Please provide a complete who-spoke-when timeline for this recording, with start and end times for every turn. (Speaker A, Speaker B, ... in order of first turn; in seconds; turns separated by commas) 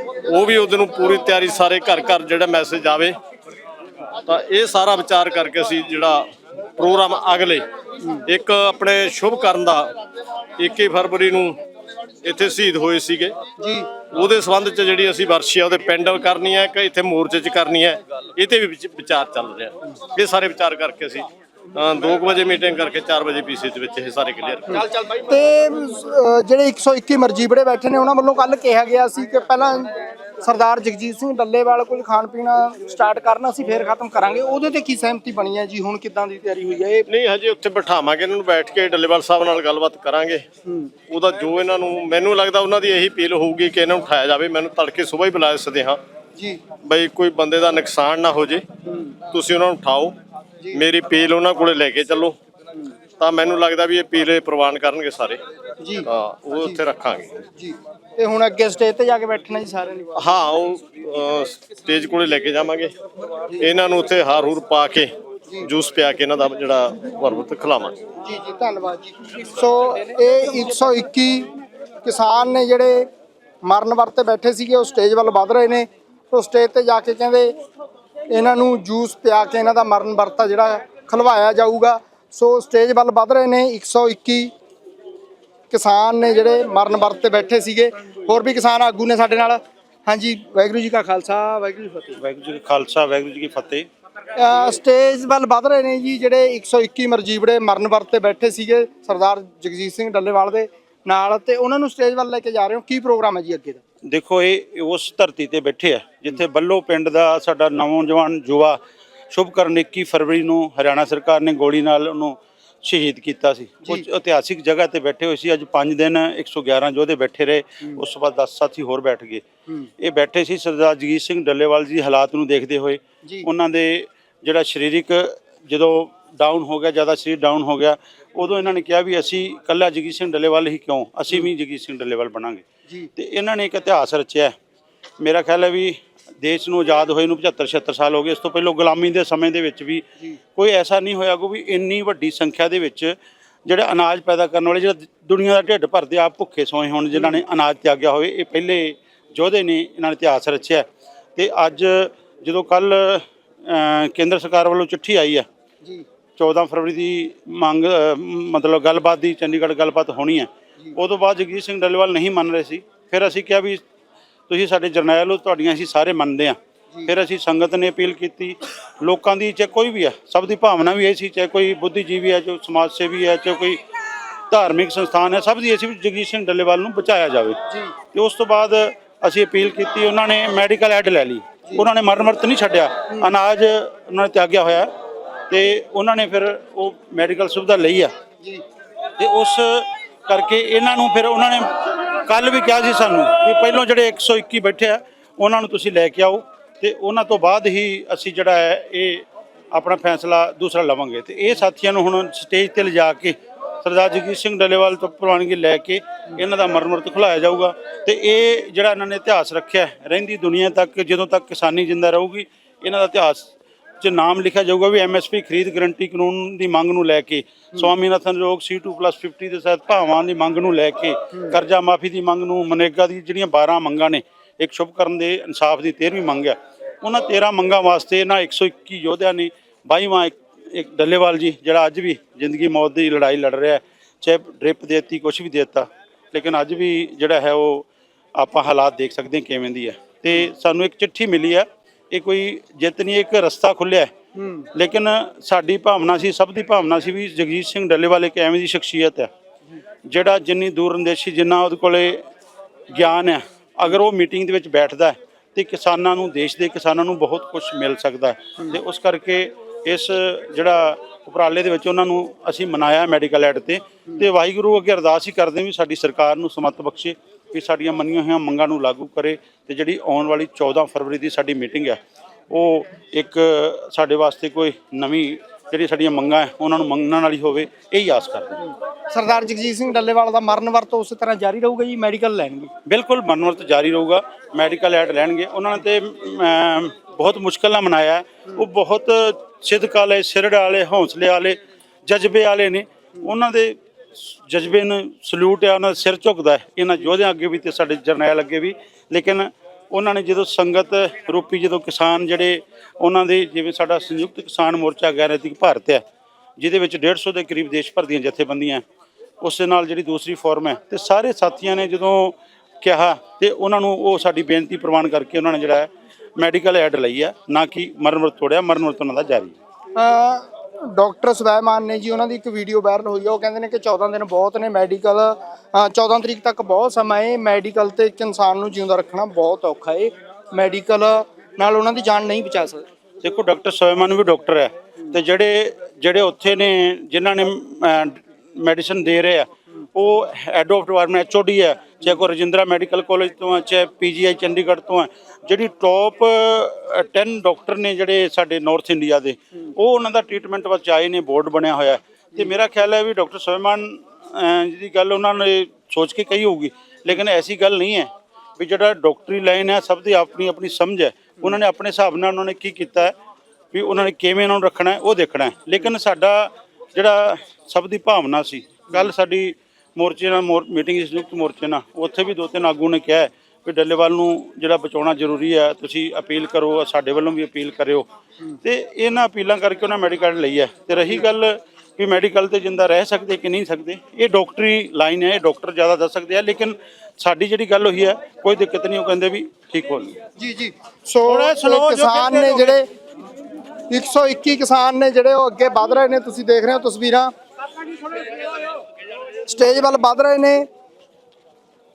Speaker A: 0.2-3.2, Speaker A: 4.2-6.2, Speaker A: 6.8-7.6, Speaker A: 8.2-9.9, Speaker A: 10.6-11.6, Speaker A: 12.2-13.3, Speaker B: 13.6-13.9, Speaker A: 14.1-24.9, Speaker B: 24.7-37.1, Speaker A: 37.1-40.4, Speaker A: 41.1-46.0, Speaker A: 46.8-48.6, Speaker A: 49.3-50.1, Speaker A: 50.7-52.4, Speaker A: 53.2-55.4, Speaker B: 55.8-56.1, Speaker A: 56.1-57.4, Speaker B: 57.6-60.1, Speaker A: 60.2-62.9, Speaker A: 63.6-65.1, Speaker A: 65.6-68.0, Speaker B: 68.2-71.5, Speaker B: 72.0-73.1, Speaker B: 73.6-77.5, Speaker B: 78.3-84.5, Speaker B: 85.7-92.2, Speaker C: 92.2-93.8, Speaker B: 94.3-103.8, Speaker C: 104.0-108.8, Speaker C: 109.3-119.4, Speaker C: 120.0-132.6, Speaker C: 133.2-134.5, Speaker C: 135.2-140.0, Speaker C: 140.5-143.1, Speaker C: 143.7-150.8, Speaker B: 147.1-147.4, Speaker C: 151.3-155.4, Speaker C: 156.4-163.8, Speaker C: 164.5-166.6, Speaker C: 167.1-173.8, Speaker C: 174.5-177.6, Speaker C: 178.1-184.9, Speaker C: 185.5-188.1, Speaker C: 189.2-213.5, Speaker C: 214.0-244.1, Speaker B: 244.3-244.7, Speaker C: 244.7-249.3, Speaker C: 250.1-252.2, Speaker C: 252.9-272.0, Speaker C: 272.5-278.6, Speaker B: 279.1-282.7, Speaker C: 282.9-306.0, Speaker C: 306.6-308.8, Speaker C: 309.4-319.6, Speaker B: 319.9-332.8, Speaker C: 333.2-363.1, Speaker C: 363.7-378.1, Speaker C: 378.6-390.1, Speaker B: 390.4-392.9, Speaker C: 391.2-392.8, Speaker B: 393.9-397.3, Speaker B: 399.4-400.6